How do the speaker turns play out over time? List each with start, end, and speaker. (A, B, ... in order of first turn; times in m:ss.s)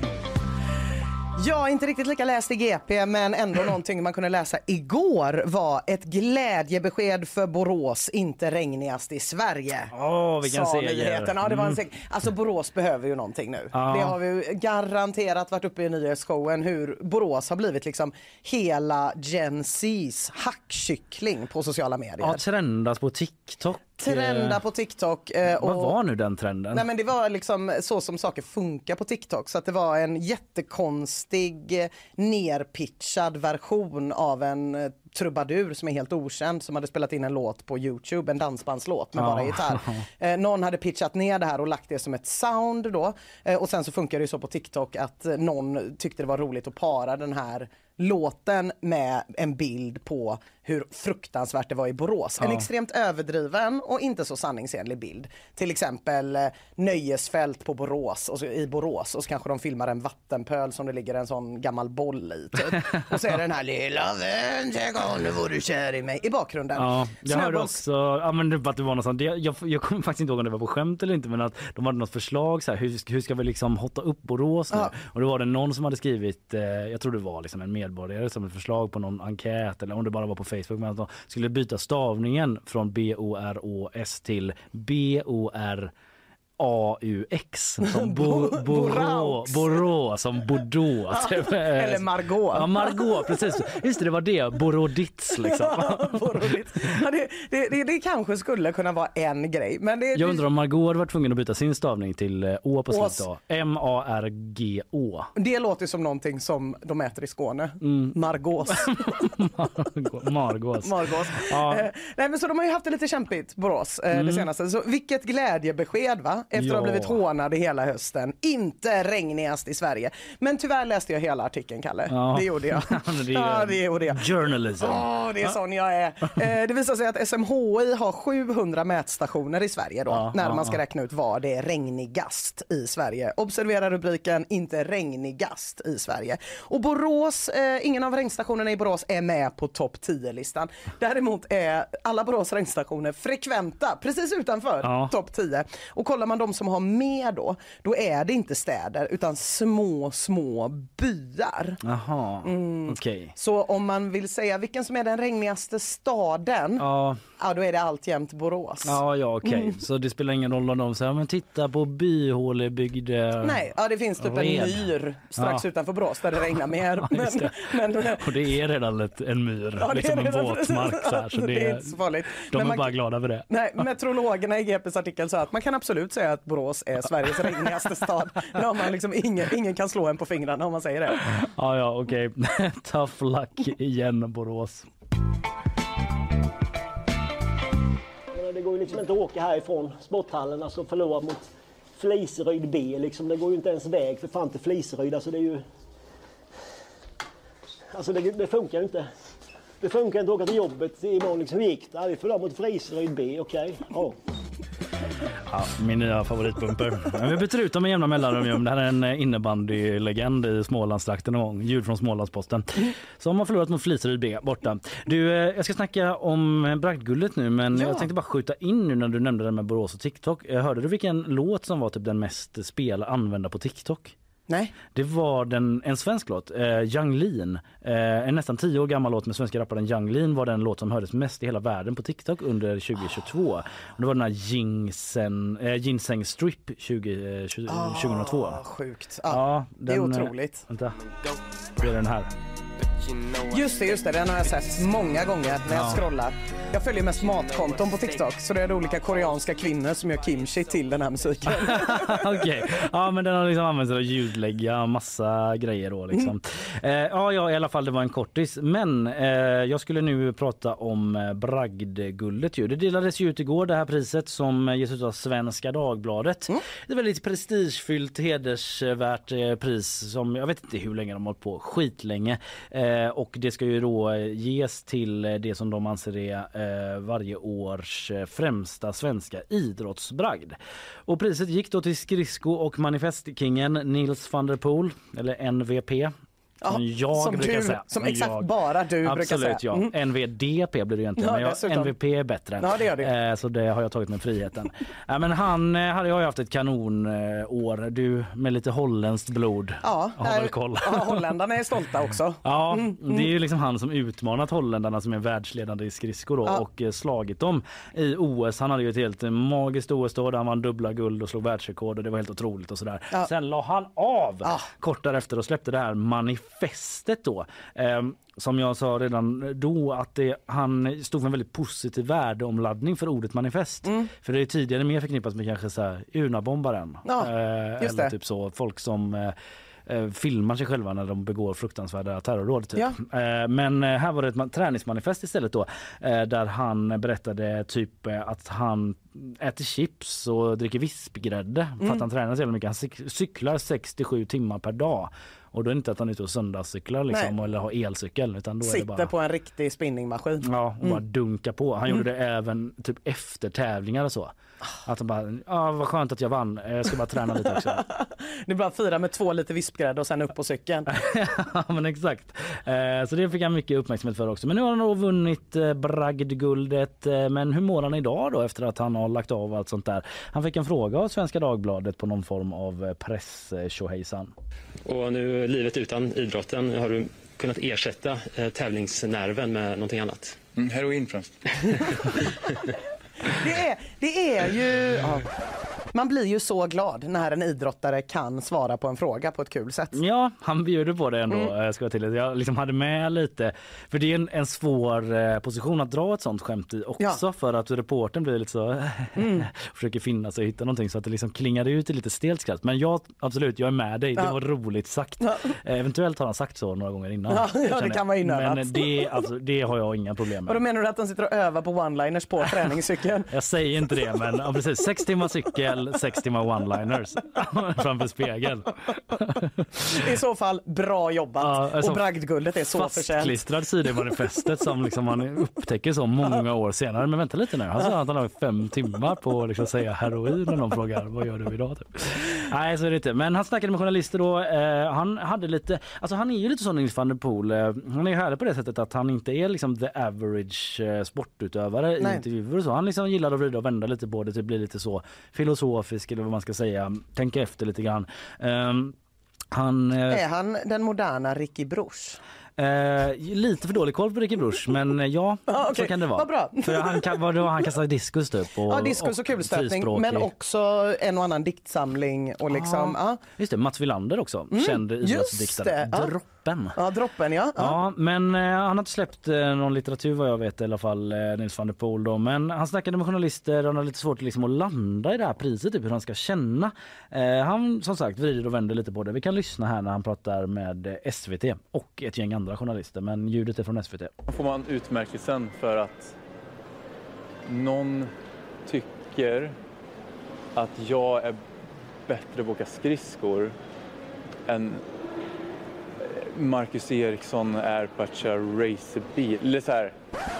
0:01.4-0:22.4 A
0:09.9-0:11.8 B
0:13.7-0:14.2 B
0:22.2-0:24.6 B
0:24.0-0:26.0 A
0:25.5-0:26.9 B
0:26.7-1:07.8 A
0:39.2-0:40.0 B
0:52.4-0:52.7 B
1:06.8-1:25.9 B
1:26.6-1:36.6 B
1:27.8-1:29.8 A
1:31.1-1:33.1 A
1:35.3-1:40.4 A
1:40.1-1:45.3 B
1:42.9-1:43.2 A
1:45.4-1:49.3 A
1:47.8-1:48.2 B
1:48.7-1:51.9 B
1:50.8-2:31.8 A
1:54.1-1:54.5 B
1:56.6-1:57.2 B
2:02.1-2:05.0 B
2:10.1-2:10.8 B
2:24.8-2:25.1 B
2:31.8-2:33.3 B
2:32.4-2:36.9 A
2:36.8-2:37.2 B
2:37.4-2:39.8 A
2:38.8-2:43.6 B
2:43.4-2:48.3 A
2:44.2-2:45.6 B
2:47.0-2:53.5 B
2:49.8-2:52.9 A
2:53.5-3:01.2 A
3:01.3-3:04.9 B
3:08.3-3:15.6 C
3:17.9-3:19.1 C
3:19.8-3:24.2 C
3:25.5-3:44.1 B
3:37.7-3:38.1 A
3:44.5-3:44.8 A
3:44.9-3:58.6 B
3:57.7-4:00.6 A
3:59.3-4:01.0 B
4:01.8-4:02.3 B
4:03.5-4:12.5 A
4:05.7-4:06.0 B
4:11.6-4:46.1 B
4:46.6-4:49.9 A
4:46.7-4:48.5 B
4:49.0-5:01.3 B
4:51.2-4:51.9 A
4:52.6-4:53.1 A
4:59.8-5:03.3 A
5:02.4-5:49.1 B
5:14.4-5:14.7 A
5:27.0-5:28.1 A
5:41.8-5:42.0 A
5:48.6-5:51.0 A
5:50.4-5:54.3 B
5:54.9-5:57.8 B
5:57.7-6:00.9 A
6:00.9-6:14.3 B
6:14.9-6:20.4 D
6:20.6-6:22.0 E
6:23.3-6:25.3 A
6:25.9-6:30.0 A
6:29.9-6:50.6 B
6:39.2-6:39.5 A
6:45.2-6:45.5 A
6:47.3-6:49.2 A
6:50.5-6:53.3 A
6:53.3-7:00.0 B
6:59.9-7:03.4 A
7:01.4-7:02.0 B
7:02.7-7:29.0 B
7:22.0-7:22.2 A
7:29.5-7:30.2 B
7:30.1-7:32.2 A
7:32.6-7:40.3 B
7:35.5-7:37.2 A
7:38.7-7:43.2 A
7:42.5-7:46.8 B
7:44.5-7:46.1 A
7:46.8-7:47.8 A
7:47.6-8:04.1 B
8:04.3-8:06.2 E
8:07.5-8:08.1 E
8:08.7-8:09.6 E
8:10.6-8:11.4 E
8:12.1-8:13.6 E
8:14.5-8:14.8 E
8:16.0-8:20.0 E